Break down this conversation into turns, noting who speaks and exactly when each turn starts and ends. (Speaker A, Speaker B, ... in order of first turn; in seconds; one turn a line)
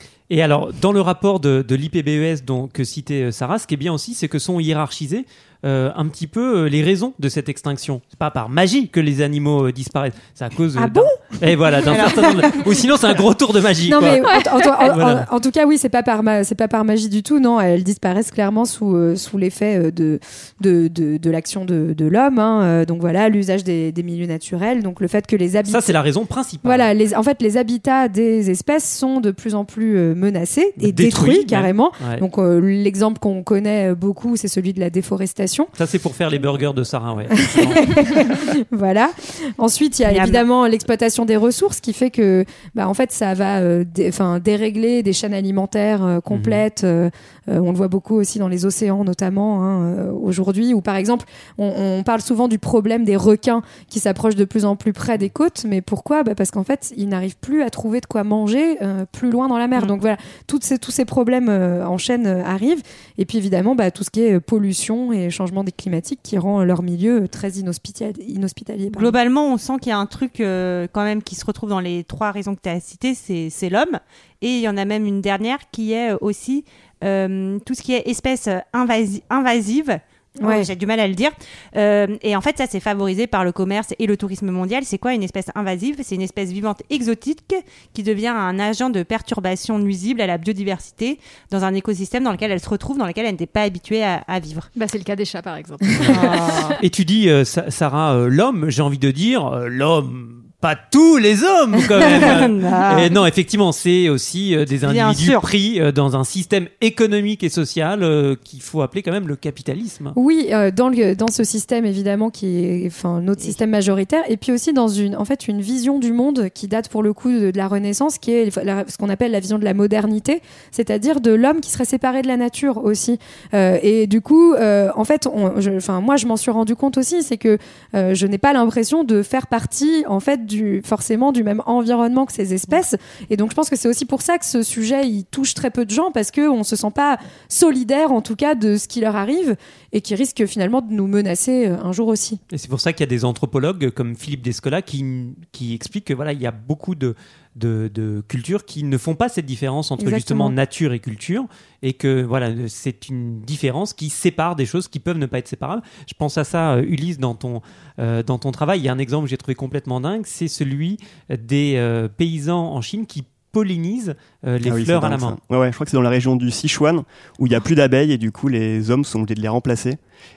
Speaker A: 0.3-14.3
Speaker B: 10.8-12.2
Speaker C: 11.9-12.7
Speaker B: 13.9-26.0
Speaker D: 14.3-14.9
Speaker A: 14.8-15.3
Speaker A: 25.7-26.9
Speaker B: 26.6-35.7
Speaker A: 30.8-32.2
Speaker A: 35.8-38.0
Speaker B: 37.4-69.2
Speaker C: 40.1-40.4
Speaker A: 46.3-46.6
Speaker C: 68.9-94.7
Speaker B: 80.4-80.7
Speaker D: 94.8-96.8
Speaker A: 96.0-110.2
Speaker C: 96.1-96.8
Speaker C: 102.2-103.1
Speaker C: 104.8-105.5
Speaker B: 110.2-142.4
Speaker A: 142.5-165.4
Speaker B: 150.0-150.5
Speaker E: 164.7-170.0